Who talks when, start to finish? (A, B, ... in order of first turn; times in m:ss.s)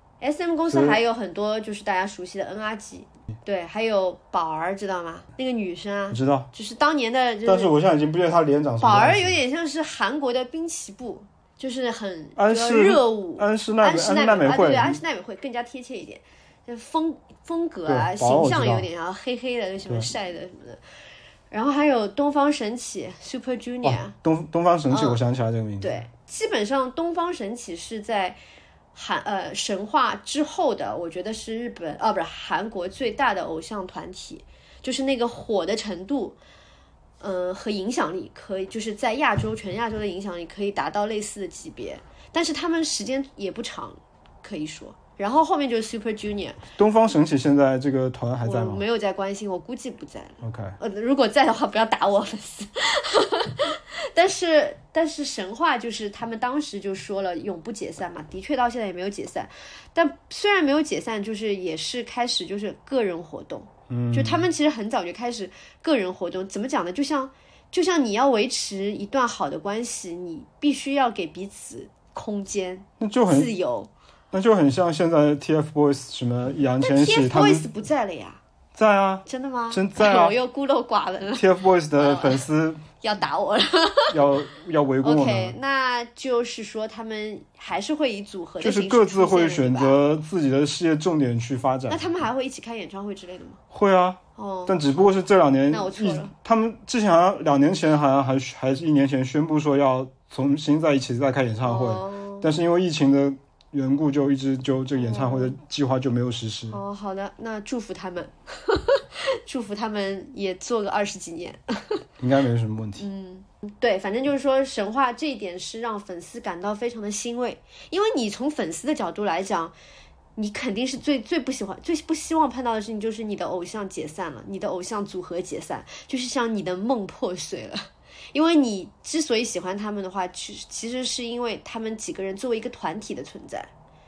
0:00.2-0:07.7 A
0:00.7-0:01.0 B
0:06.1-0:06.5 B
0:07.4-0:09.4 B
0:08.8-0:20.8 A
0:12.4-0:15.0 B
0:17.8-0:18.9 B
0:21.5-0:24.1 A
0:23.8-0:26.0 B
0:24.9-0:25.2 A
0:25.8-0:28.4 A
0:28.9-0:36.4 A
0:37.2-0:46.6 A
0:46.8-0:48.8 B
0:48.4-1:13.9 A
0:50.4-0:50.8 B
1:03.9-1:04.5 B
1:13.0-1:13.5 B
1:14.3-1:17.6 B
1:16.8-1:18.4 A
1:18.7-1:20.4 B
1:19.2-1:21.4 A
1:21.3-1:22.8 B
1:22.0-1:22.4 A
1:23.0-1:24.2 A
1:24.1-1:25.6 B
1:25.0-1:30.0 A
1:28.6-1:32.0 B
1:31.9-1:33.6 A
1:33.7-1:46.8 B
1:34.4-1:34.8 A
1:35.7-1:36.3 A
1:41.6-1:42.5 A
1:45.0-1:45.6 A
1:46.7-1:52.0 A
1:52.2-1:53.0 B
1:53.0-1:59.7 A
2:00.4-2:13.7 A